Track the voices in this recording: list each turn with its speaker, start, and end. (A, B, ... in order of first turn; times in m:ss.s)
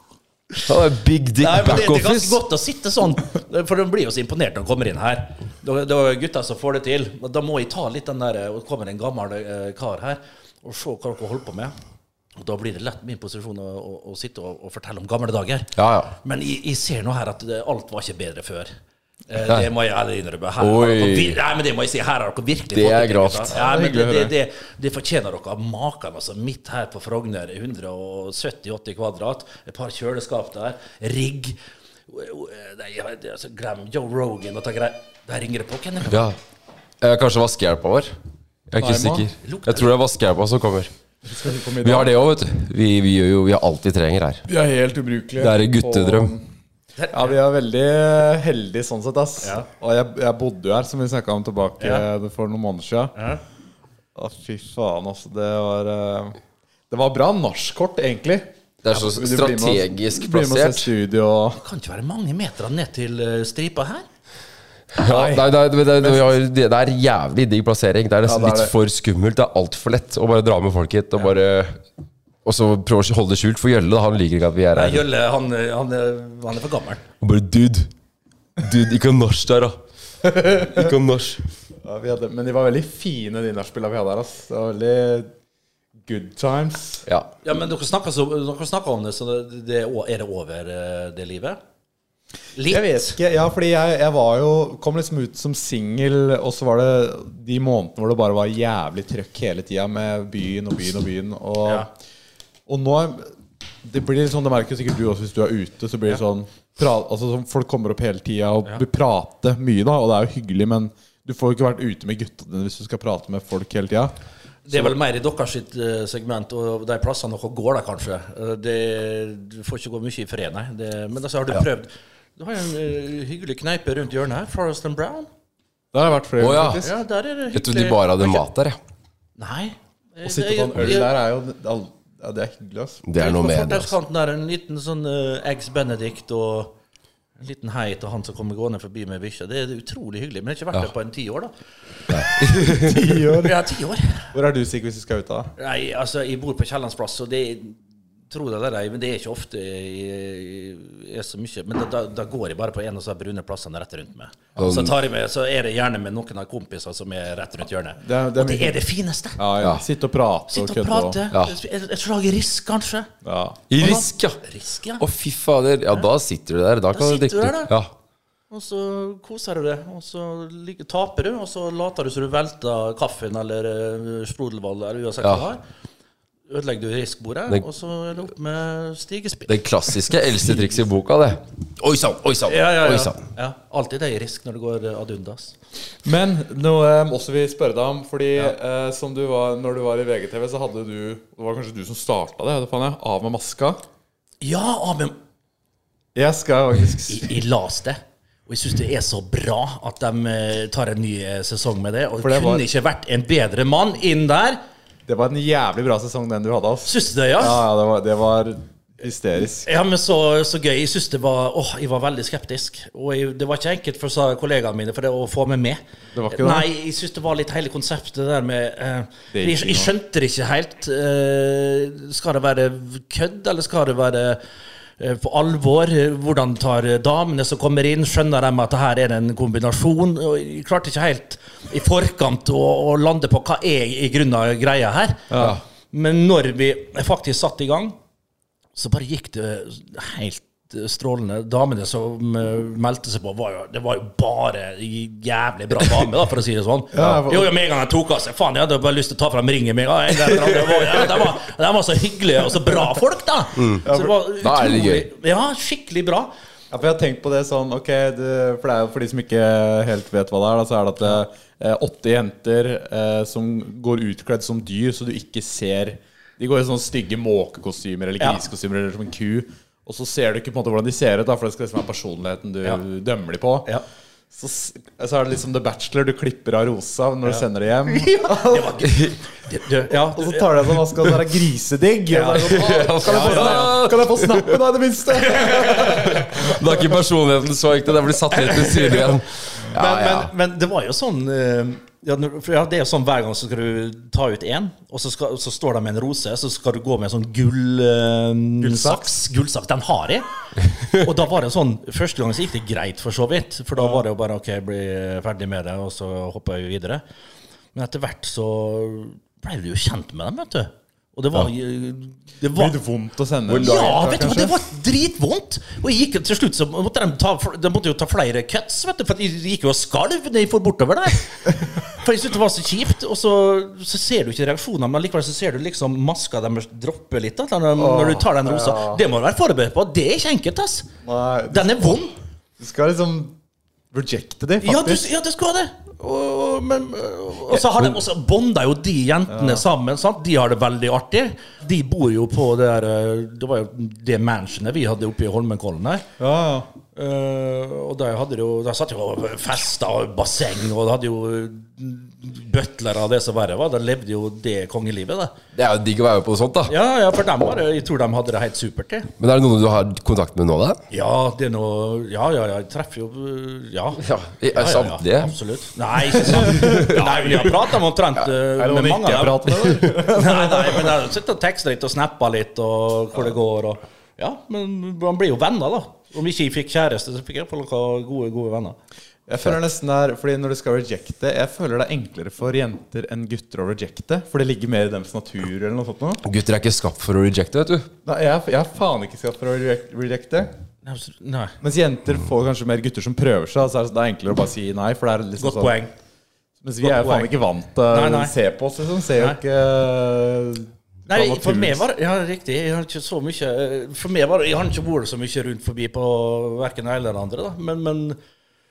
0:00.7-0:02.4 A
0:01.4-0:11.7 B
0:12.4-0:18.7 B
0:15.8-0:16.1 A
0:19.3-0:36.3 B
0:20.6-0:21.4 A
0:22.7-0:23.6 A
0:23.6-0:24.3 C
0:36.1-0:36.4 A
0:37.0-0:38.1 A
0:38.7-0:40.9 A
0:38.8-0:39.3 C
0:39.4-0:39.9 B
0:41.2-0:42.2 C
0:41.8-0:44.4 A
0:44.5-0:46.4 C
0:45.4-0:46.3 A
0:47.0-0:47.4 B
0:47.1-0:53.2 C
0:51.8-0:52.1 B
0:53.2-0:53.4 B
0:54.2-0:56.4 C
0:56.9-1:01.6 C
0:58.8-1:00.9 A
1:01.6-1:04.1 B
1:04.9-1:11.8 A
1:05.0-1:06.3 C
1:08.2-1:08.7 C
1:12.4-1:15.0 A
1:14.7-1:17.0 B
1:17.2-1:17.9 A
1:18.6-1:19.8 A
1:20.2-1:20.9 C
1:20.6-1:21.4 A
1:21.8-1:25.3 C
1:26.0-1:27.0 C
1:27.4-1:31.6 B
1:32.6-1:33.2 B
1:32.7-1:41.9 C
1:42.7-1:43.3 C
1:43.8-1:54.1 C
1:54.7-2:05.3 B
2:05.9-2:06.9 C
2:06.4-2:06.9 A
2:06.8-2:08.5 B
2:07.5-2:08.8 A
2:09.4-2:11.1 B
2:10.2-2:13.0 C
2:13.1-2:13.9 A
2:13.2-2:16.8 B
2:17.4-2:21.5 B
2:22.1-2:22.5 B
2:22.1-2:23.0 A
2:22.5-2:23.7 C
2:23.3-2:24.3 B
2:24.3-2:25.5 C
2:25.6-2:39.4 B
2:34.6-2:35.0 A
2:38.0-2:38.8 C
2:39.4-2:41.2 C
2:40.5-2:43.1 B
2:43.2-2:43.7 C
2:43.7-2:44.4 A
2:43.8-2:45.0 B
2:45.0-2:47.9 A
2:46.9-2:47.7 B
2:48.5-2:55.6 B
2:56.5-2:59.6 B
2:59.5-3:03.2 A
3:00.4-3:00.8 B
3:02.5-3:05.6 B
3:06.0-3:13.8 C
3:14.4-3:15.2 B
3:16.2-3:17.3 C
3:17.1-3:24.6 B
3:22.2-3:22.6 C
3:25.1-3:29.7 C
3:26.9-3:27.6 B
3:29.6-3:44.4 B
3:36.2-3:36.7 C
3:39.3-3:39.9 C
3:45.0-3:58.0 B
3:55.3-3:55.6 C
3:58.8-4:16.3 B
4:06.9-4:07.5 C
4:13.6-4:13.9 A
4:13.9-4:14.2 C
4:14.4-4:15.1 A
4:16.7-4:33.7 C
4:34.3-4:38.8 C
4:37.3-4:40.8 B
4:38.8-4:39.2 A
4:40.0-4:46.6 C
4:42.1-4:43.8 B
4:42.4-4:44.6 A
4:45.2-4:46.2 B
4:45.7-4:50.3 A
4:48.3-4:49.1 B
4:49.7-5:00.3 B
4:58.6-4:59.2 C
5:00.9-5:07.0 B
5:03.8-5:04.0 C
5:07.7-5:12.8 B
5:12.6-5:14.6 C
5:13.5-5:14.2 A
5:13.6-5:30.9 B
5:27.8-5:29.0 C
5:31.0-5:32.1 C
5:31.5-5:32.2 B
5:32.6-5:33.3 C
5:33.9-5:35.1 C
5:34.6-5:46.1 B
5:39.3-5:39.6 C
5:46.2-5:46.7 C
5:47.0-5:55.3 B
5:55.6-5:56.7 A
5:56.7-5:59.1 B
5:59.2-6:00.8 A
6:00.9-6:18.8 B
6:04.0-6:05.3 A
6:06.3-6:06.9 A
6:06.4-6:07.7 C
6:08.6-6:11.0 C
6:19.3-6:26.2 C
6:26.2-6:27.9 A
6:28.0-6:30.5 C
6:30.8-6:31.6 B
6:31.6-6:35.8 C
6:35.4-6:35.9 B
6:36.6-6:41.8 C
6:36.8-6:37.3 B
6:37.9-6:38.3 B
6:41.1-6:48.2 B